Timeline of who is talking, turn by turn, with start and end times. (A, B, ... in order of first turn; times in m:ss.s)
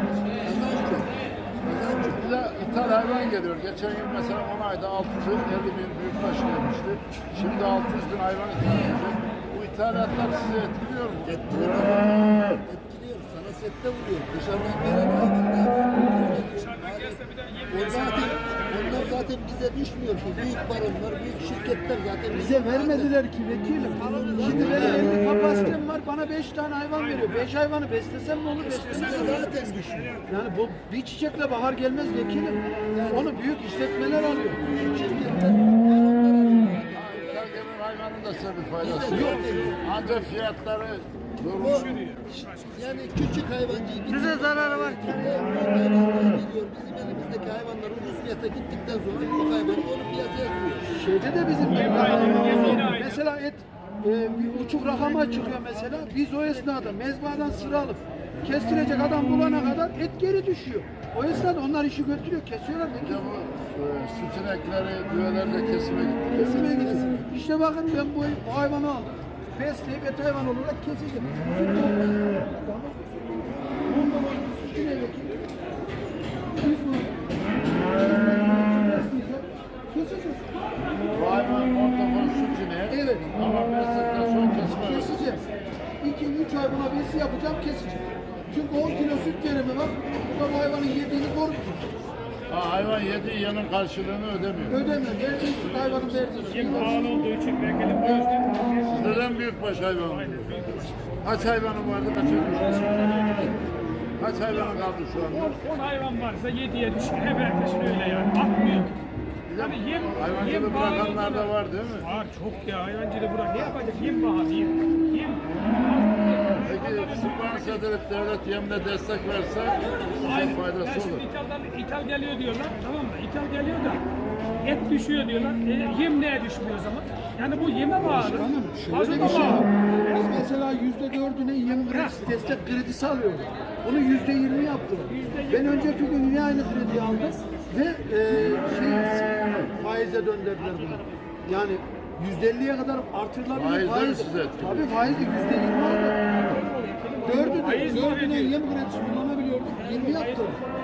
0:00.3-0:02.2 A
0:02.2-0:11.6 B
0:11.3-0:23.1 A
0:16.5-0:19.1 C
0:22.3-0:29.4 D
0:23.9-0:25.2 A
0:28.6-0:30.2 A
0:29.2-0:29.5 C
0:30.3-0:34.6 D
0:32.9-0:33.3 A
0:34.6-0:37.6 A
0:36.9-0:41.9 B
0:38.8-0:39.8 A
0:41.5-0:42.0 A
0:41.9-0:42.8 C
0:42.7-0:50.9 A
0:44.2-0:45.0 D
0:50.8-1:03.3 D
0:51.7-0:53.2 C
1:03.0-1:06.7 B
1:06.3-1:15.4 D
1:16.6-1:21.0 D
1:21.1-1:25.2 B
1:22.9-1:23.3 D
1:24.6-1:25.4 D
1:26.0-1:31.9 D
1:32.5-1:34.8 B
1:34.7-1:37.2 D
1:36.5-1:39.4 C
1:38.9-1:43.5 B
1:40.0-1:40.9 C
1:43.0-1:43.4 C
1:44.2-1:45.6 B
1:45.3-1:49.0 C
1:49.5-1:52.1 B
1:49.6-1:51.5 C
1:52.0-1:57.8 C
1:56.6-2:01.3 B
1:59.9-2:04.0 C
2:04.6-2:09.7 C
2:08.0-2:26.2 D
2:15.1-2:16.1 C
2:23.5-2:24.9 B
2:26.4-2:28.5 C
2:27.2-2:30.6 D
2:29.9-2:30.4 C